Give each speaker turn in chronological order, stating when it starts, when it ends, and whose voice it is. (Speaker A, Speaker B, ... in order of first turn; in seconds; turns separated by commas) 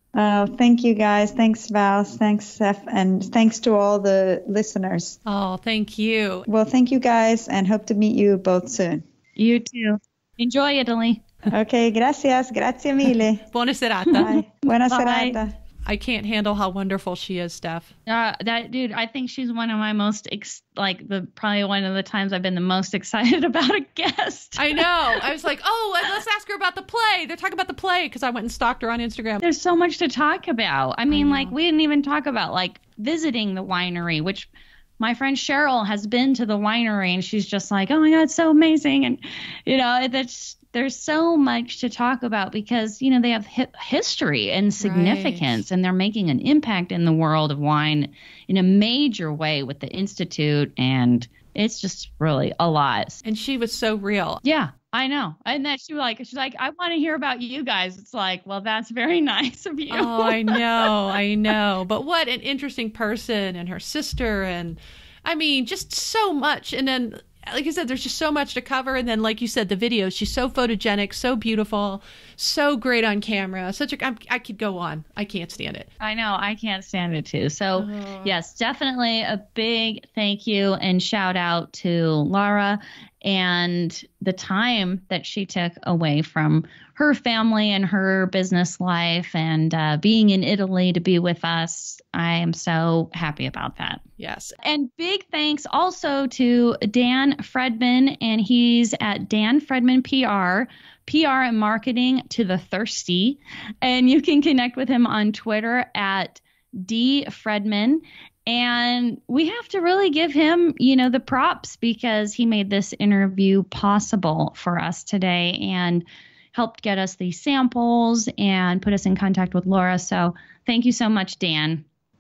Speaker A: 0.1-5.2, Speaker B: 5.3-6.5, Speaker A: 6.5-9.0, Speaker C: 9.4-11.2, Speaker A: 11.5-13.5, Speaker B: 13.5-14.3, Speaker C: 14.1-15.4, Speaker A: 14.2-15.6, Speaker B: 15.9-17.9, Speaker C: 18.1-25.2, Speaker B: 24.6-29.4, Speaker C: 29.4-53.2, Speaker B: 31.1-31.5, Speaker B: 44.8-45.6, Speaker B: 53.2-54.4, Speaker C: 54.4-61.0, Speaker B: 59.9-75.9, Speaker C: 76.0-94.0, Speaker B: 77.8-78.4, Speaker B: 94.2-94.6, Speaker C: 94.6-121.8